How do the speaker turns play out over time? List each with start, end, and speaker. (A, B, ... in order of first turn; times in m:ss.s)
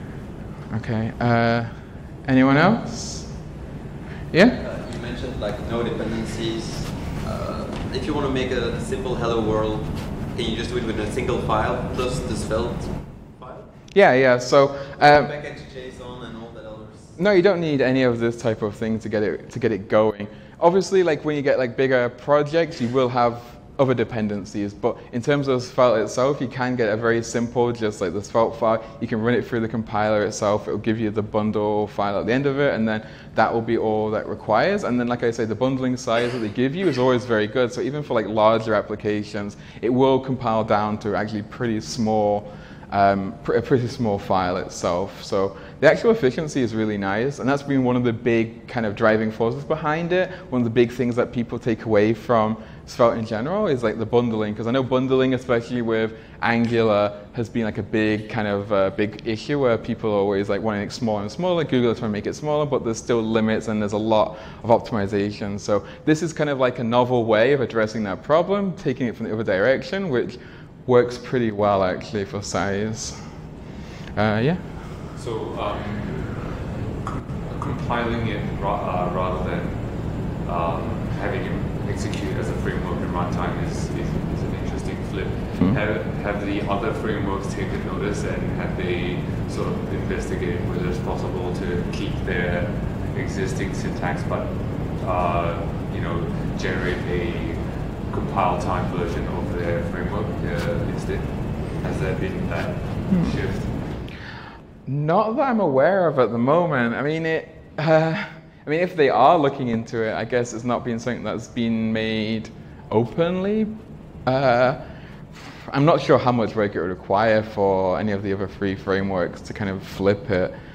0:00.7-0:03.5 A
0:04.3-0:04.6 A
0:04.6-0:13.7 B
0:13.9-0:15.3 A
0:15.0-0:17.2 B
0:17.2-1:13.4 A
1:14.2-1:15.0 A
1:15.1-1:44.2 C
1:43.1-1:43.4 A
1:44.9-1:53.8 A
1:54.3-2:00.6 A